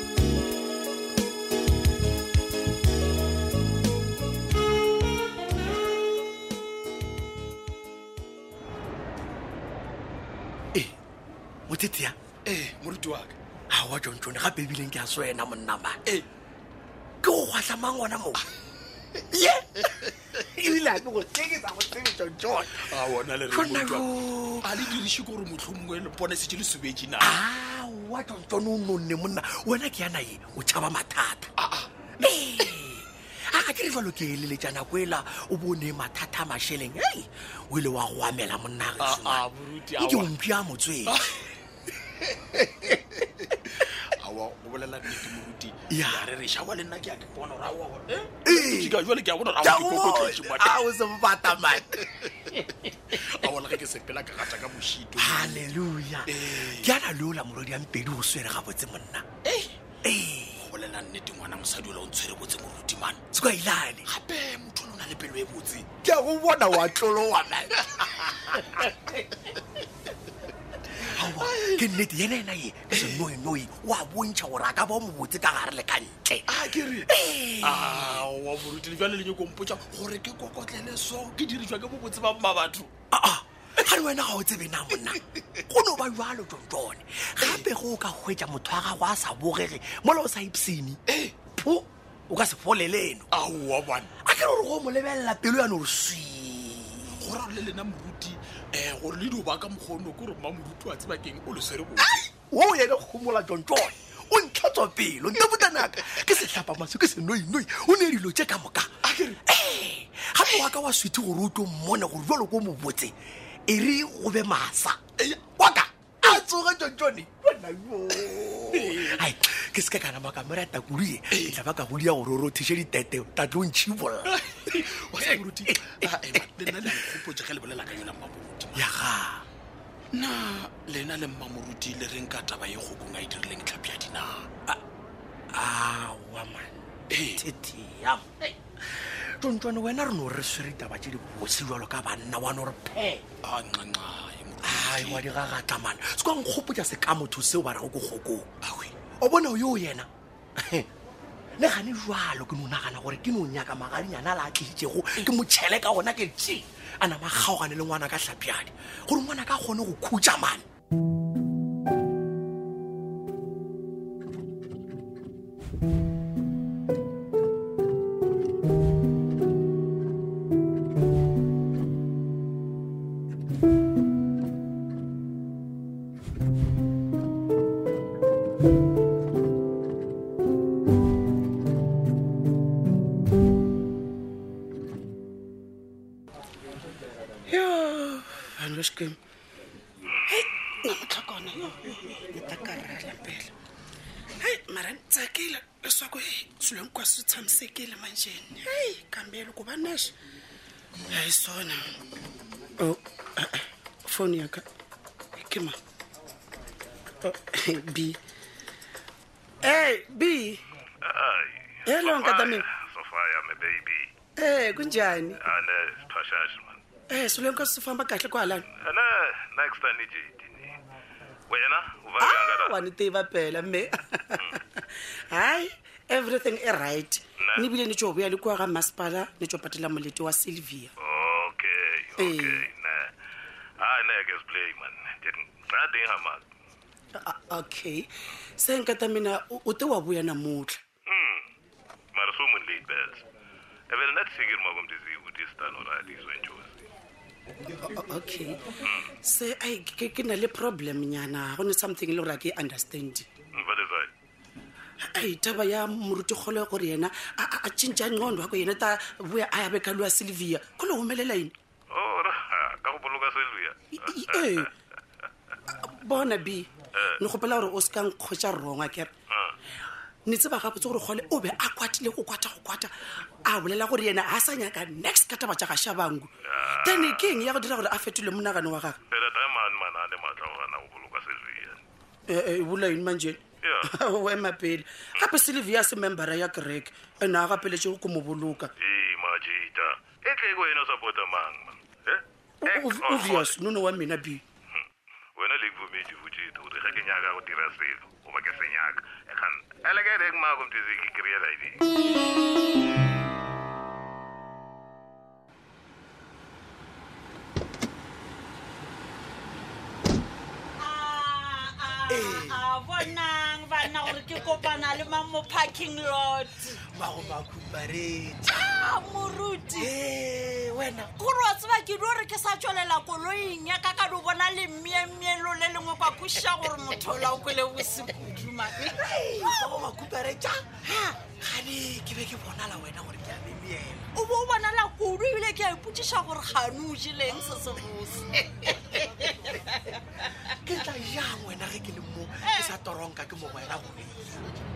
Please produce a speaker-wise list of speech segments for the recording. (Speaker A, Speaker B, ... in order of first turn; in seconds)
Speaker A: 11.7-12.2, 13.7-16.0, 17.2-18.4, 19.3-25.0, 27.2-31.5, 32.2-41.3, 42.7-43.1, 45.9-46.3, 48.5-49.0, 49.6-52.6, 55.1-59.3, 60.0-60.7, 63.3-64.1, 66.0-69.1, 71.0-78.3, 83.1-91.0, 91.5-93.3, 94.2-97.3, 102.0-113.1, 113.7-127.2, 128.7-129.4, 135.5-136.8, 137.3-143.2, 144.6-148.5, 149.1-150.9, 151.6-160.6, 312.1-312.7, 316.8-319.0, 319.7-321.1, 326.4-326.7, 328.8-334.1, 340.6-344.5
Speaker B: 12.4-13.3, 20.0-20.4, 22.7-24.1, 24.6-27.4, 31.6-32.1, 39.0-40.3, 41.0-41.5, 43.8-50.8, 52.6-55.7, 56.3-57.0, 59.5-59.8, 60.6-63.2, 64.1-65.9, 68.5-68.9, 71.0-71.9, 72.9-73.3, 76.5-82.9, 91.1-91.4, 93.3-94.1, 97.2-102.1, 109.0-109.4, 118.7-119.2, 121.3-121.6, 124.2-128.9, 130.1-134.5, 137.1-137.4, 143.4-145.3, 148.6-148.9
Speaker C: 187.5-189.2, 190.3-193.5, 194.4-200.1, 201.1-201.9, 202.8-204.7, 205.3-205.8, 207.2-208.2, 209.6-210.6, 211.9-212.6, 214.4-215.4, 217.1-218.7, 222.2-230.9, 232.2-232.7, 237.1-238.1, 238.6-240.8, 247.8-248.6, 249.2-253.3, 255.0-261.5, 264.0-264.7, 265.8-269.1, 270.2-279.0, 282.3-288.7, 292.6-294.4
Speaker D: 211.0-214.1, 215.4-216.8, 218.7-220.8, 221.5-222.7, 231.0-233.1, 233.8-236.4, 241.1-241.4, 242.1-243.2, 243.9-246.8, 253.6-254.1, 261.9-263.8, 276.4-276.7, 279.1-281.8, 288.8-293.5, 295.4-301.9
Speaker E: 310.8-316.8, 318.5-319.9, 321.2-329.7, 334.1-340.0, 342.4-342.7